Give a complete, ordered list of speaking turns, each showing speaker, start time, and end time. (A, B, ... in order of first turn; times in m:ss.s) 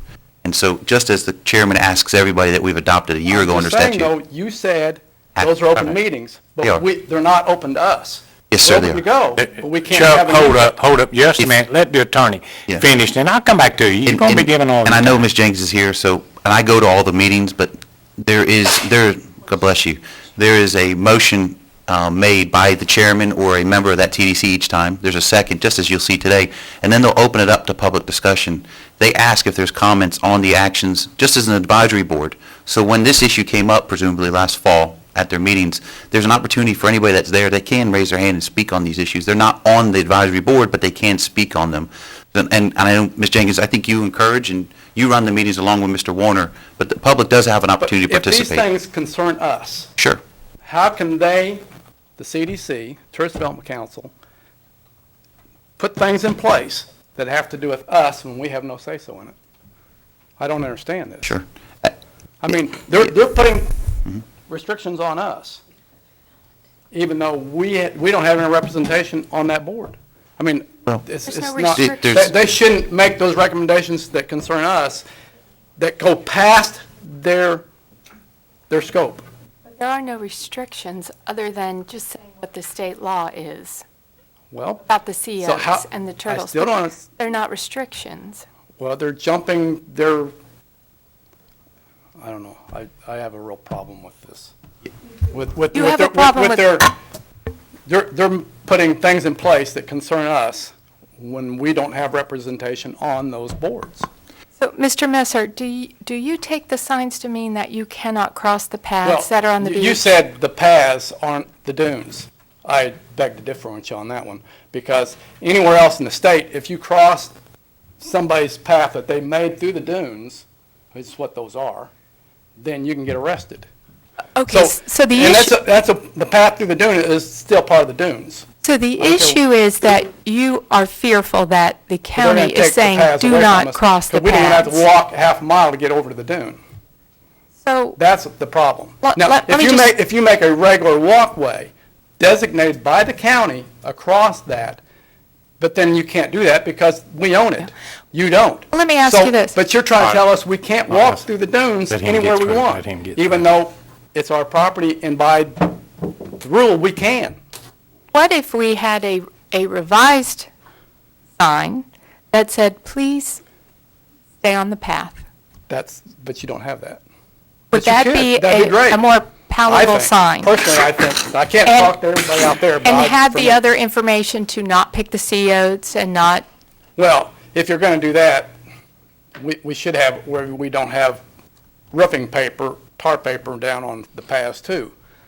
0:00.4-0:04.1 A
0:03.3-0:10.7 B
0:05.4-0:06.0 A
0:08.5-0:09.0 A
0:09.4-0:15.2 C
0:14.0-0:48.7 A
0:47.8-0:49.9 B
0:50.6-0:51.6 B
0:52.2-0:54.1 B
0:55.8-0:59.3 B
1:00.4-1:01.3 B
1:01.2-1:01.9 A
1:02.4-1:03.7 B
1:04.4-1:05.6 B
1:06.9-1:15.0 B
1:11.2-1:12.3 D
1:11.7-1:12.3 A
1:15.8-1:17.6 B
1:18.7-1:19.3 B
1:19.7-1:23.8 D
1:24.5-1:27.0 B
1:24.9-1:28.4 D
1:28.8-1:30.3 B
1:32.2-1:34.5 B
1:35.3-1:37.0 B
1:35.7-1:36.8 D
1:37.9-1:44.1 B
1:44.6-1:50.1 D
1:49.0-1:57.3 B
1:58.0-2:01.9 B
2:02.6-2:03.7 B
2:04.3-2:05.6 D
2:04.5-2:08.5 B
2:08.6-2:14.8 D
2:09.0-2:09.4 B
2:12.1-2:16.6 B
2:17.6-2:18.0 D
2:18.0-2:24.8 B
2:19.0-2:19.9 D
2:25.6-2:37.4 B
2:28.7-2:29.6 D
2:30.9-2:31.2 C
2:31.9-2:33.4 C
2:38.1-2:40.5 D
2:41.4-2:43.4 D
2:44.4-2:45.2 D
2:45.7-2:47.0 B
2:47.7-2:49.0 B
2:47.7-2:50.6 D
2:49.6-2:53.6 B
2:51.6-2:52.0 D
2:52.8-2:56.4 D
2:57.0-2:58.5 B
2:59.4-3:01.2 B
3:01.9-3:04.9 B